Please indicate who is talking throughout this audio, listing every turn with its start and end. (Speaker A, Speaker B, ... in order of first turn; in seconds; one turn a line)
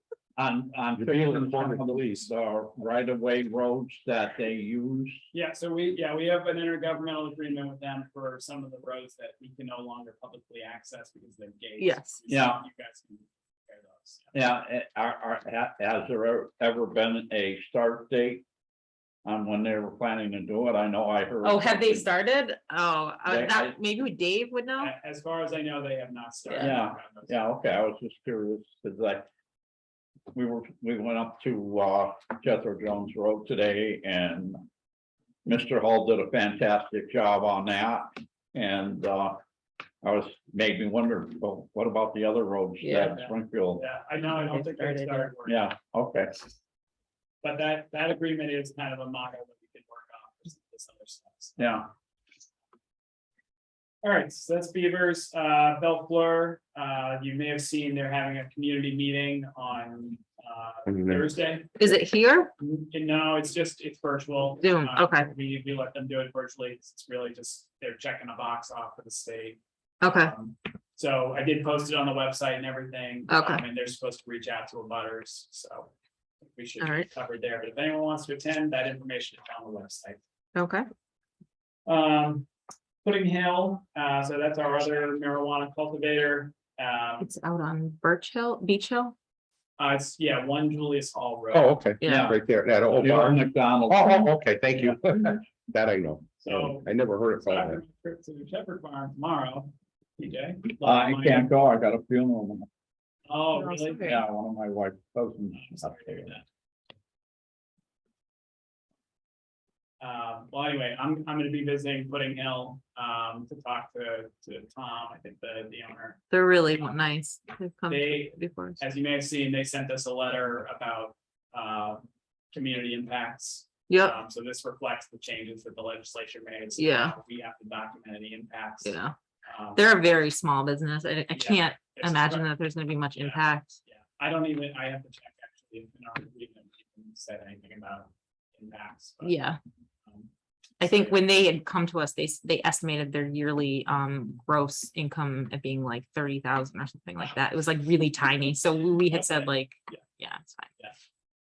Speaker A: 0.4-5.2
Speaker B: 0.9-1.9
Speaker C: 5.3-14.3
Speaker D: 11.8-12.2
Speaker A: 12.3-12.6
Speaker A: 14.3-18.4
Speaker A: 19.2-22.0
Speaker D: 21.4-24.9
Speaker A: 23.2-23.7
Speaker C: 24.8-27.4
Speaker A: 26.6-29.3
Speaker A: 30.3-34.6
Speaker A: 35.4-39.4
Speaker A: 40.0-43.8
Speaker D: 42.8-43.2
Speaker C: 43.1-45.7
Speaker D: 44.2-45.3
Speaker A: 45.5-46.4
Speaker C: 47.4-51.8
Speaker A: 51.6-51.9
Speaker C: 54.0-61.8
Speaker D: 61.8-62.5
Speaker C: 62.6-69.6
Speaker D: 64.6-65.3
Speaker D: 70.0-70.3
Speaker C: 70.1-75.9
Speaker D: 73.3-73.6
Speaker C: 76.5-80.2
Speaker D: 76.8-77.1
Speaker D: 80.5-80.8
Speaker C: 81.8-82.5
Speaker C: 83.0-87.3
Speaker D: 87.2-89.1
Speaker C: 89.8-91.8
Speaker B: 91.5-97.8
Speaker D: 92.0-92.3
Speaker A: 92.0-94.2
Speaker C: 96.4-96.9
Speaker C: 97.4-101.5
Speaker A: 100.8-102.7
Speaker C: 103.3-104.2
Speaker D: 103.5-104.2
Speaker A: 104.0-106.4
Speaker C: 105.5-106.4
Speaker C: 110.0-116.2
Speaker D: 116.3-118.8
Speaker C: 117.9-129.8
Speaker D: 123.9-124.1
Speaker D: 126.8-127.1
Speaker D: 128.8-129.1
Speaker D: 129.8-133.7
Speaker C: 131.3-132.5
Speaker C: 133.2-139.4
Speaker D: 139.2-139.6
Speaker D: 140.8-150.7
Speaker C: 149.1-150.0